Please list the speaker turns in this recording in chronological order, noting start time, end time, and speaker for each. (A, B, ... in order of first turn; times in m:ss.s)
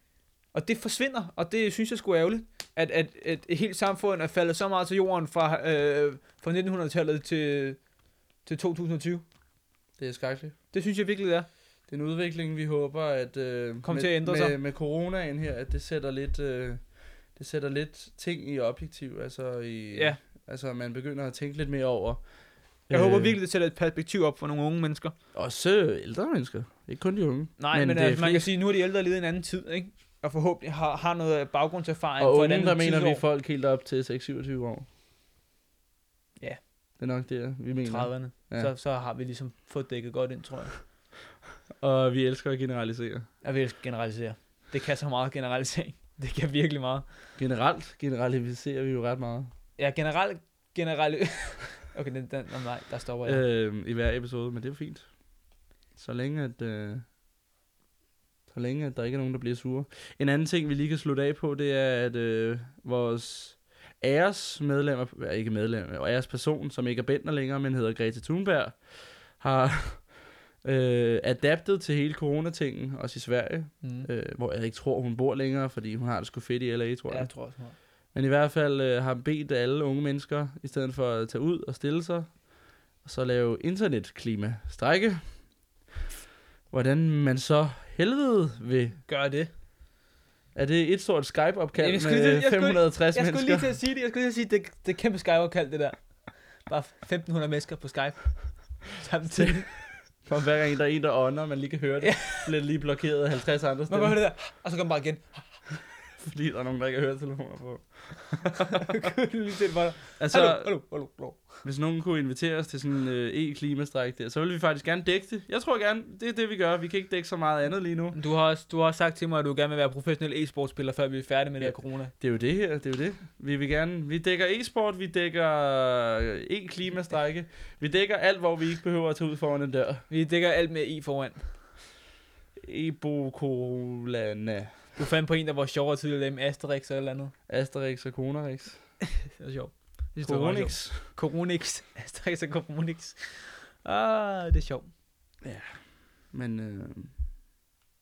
0:00.5-0:07.8 A
0:08.4-0:09.2 A
0:10.0-0:10.6 B
0:10.7-0:11.5 A
0:11.9-0:22.3 B
0:13.8-0:14.6 A
0:19.9-0:20.2 A
0:22.9-0:23.4 B
0:22.9-0:25.2 A
0:25.3-0:28.5 B
0:27.6-0:33.2 A
0:32.2-0:34.9 B
0:37.0-0:38.7 B
0:37.8-0:40.8 A
0:41.8-0:43.3 B
0:43.4-0:47.1 A
0:47.4-0:49.5 B
0:49.8-0:53.4 A
0:53.2-0:55.2 B
0:56.0-0:57.0 B
0:58.5-1:25.4 B
1:13.8-1:14.1 A
1:17.1-1:17.8 A
1:26.7-1:29.0 B
1:29.1-1:29.5 A
1:30.6-1:33.8 B
1:31.8-1:39.8 A
1:39.2-1:44.3 B
1:42.0-1:42.5 A
1:43.9-1:45.6 A
1:46.2-1:48.9 B
1:48.7-1:51.6 A
1:50.2-1:50.8 B
1:51.6-1:58.2 B
1:58.1-2:02.1 A
2:01.6-2:10.1 B
2:10.1-2:11.5 A
2:12.6-2:14.9 B
2:15.0-2:17.3 A
2:17.5-2:18.9 B
2:19.1-2:24.9 A
2:20.2-2:21.1 B
2:25.4-2:27.2 B